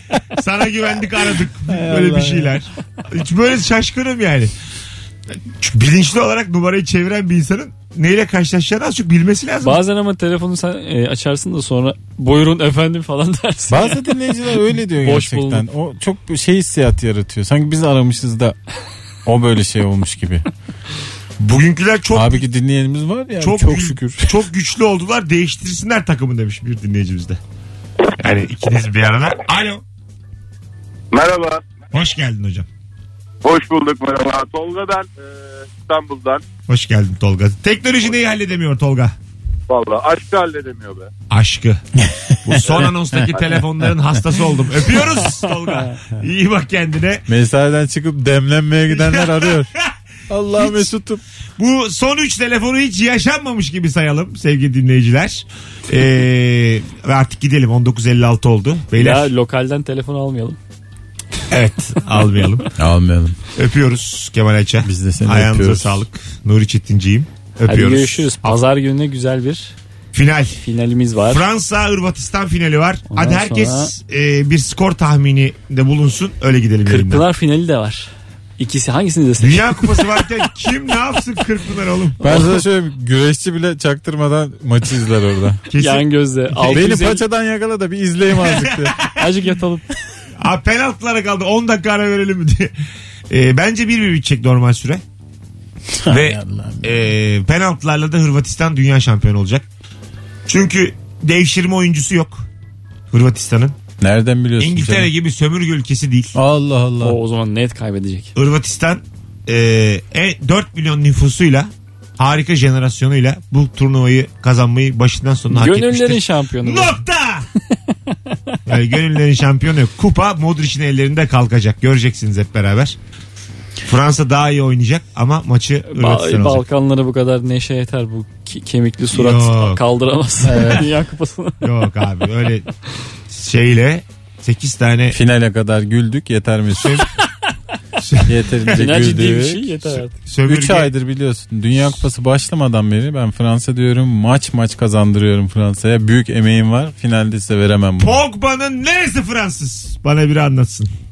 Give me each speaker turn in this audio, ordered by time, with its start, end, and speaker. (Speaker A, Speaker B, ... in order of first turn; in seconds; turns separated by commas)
Speaker A: 0.4-4.5, Speaker B: 1.7-2.6, Speaker A: 5.6-9.8, Speaker C: 9.6-14.0, Speaker B: 13.7-18.6, Speaker C: 15.0-15.6, Speaker B: 19.2-20.4, Speaker A: 21.4-22.4, Speaker B: 22.1-24.4, Speaker A: 23.4-27.4, Speaker A: 28.2-29.8, Speaker D: 31.1-31.7, Speaker A: 31.9-32.7, Speaker D: 33.4-35.1, Speaker D: 35.8-36.4, Speaker A: 36.7-39.1, Speaker D: 39.7-41.1, Speaker A: 41.3-41.8, Speaker B: 42.0-43.3, Speaker A: 42.4-47.2, Speaker B: 47.3-49.7, Speaker A: 48.9-49.9, Speaker B: 50.3-51.2, Speaker A: 50.5-50.9, Speaker A: 51.6-59.3, Speaker C: 59.0-60.6, Speaker A: 61.5-62.7, Speaker B: 62.8-63.4, Speaker A: 63.5-68.6, Speaker B: 64.8-66.0, Speaker C: 67.7-69.7, Speaker A: 70.1-70.6, Speaker C: 70.6-71.4, Speaker A: 71.2-77.2, Speaker C: 73.1-73.9, Speaker C: 76.8-80.3, Speaker A: 79.4-82.5, Speaker B: 82.2-85.6, Speaker A: 85.7-86.9, Speaker C: 85.8-87.2, Speaker B: 86.7-89.0, Speaker A: 88.7-89.0, Speaker C: 89.1-89.8, Speaker A: 90.4-92.7, Speaker A: 93.3-95.0, Speaker B: 96.0-97.1, Speaker A: 96.1-99.7, Speaker A: 100.5-102.4, Speaker A: 103.1-103.8, Speaker B: 104.0-105.1, Speaker A: 104.6-106.4, Speaker B: 106.3-107.2, Speaker C: 107.0-108.3, Speaker A: 108.3-117.5, Speaker C: 115.5-117.0, Speaker A: 118.7-123.0, Speaker A: 123.8-126.6, Speaker C: 125.9-131.6, Speaker A: 129.1-129.8, Speaker B: 130.4-130.9, Speaker A: 131.6-132.7, Speaker A: 133.3-135.2, Speaker B: 135.1-137.1, Speaker A: 138.0-139.1, Speaker B: 138.2-139.9, Speaker C: 138.7-140.1, Speaker A: 140.2-140.9, Speaker B: 140.4-148.2, Speaker A: 148.0-150.9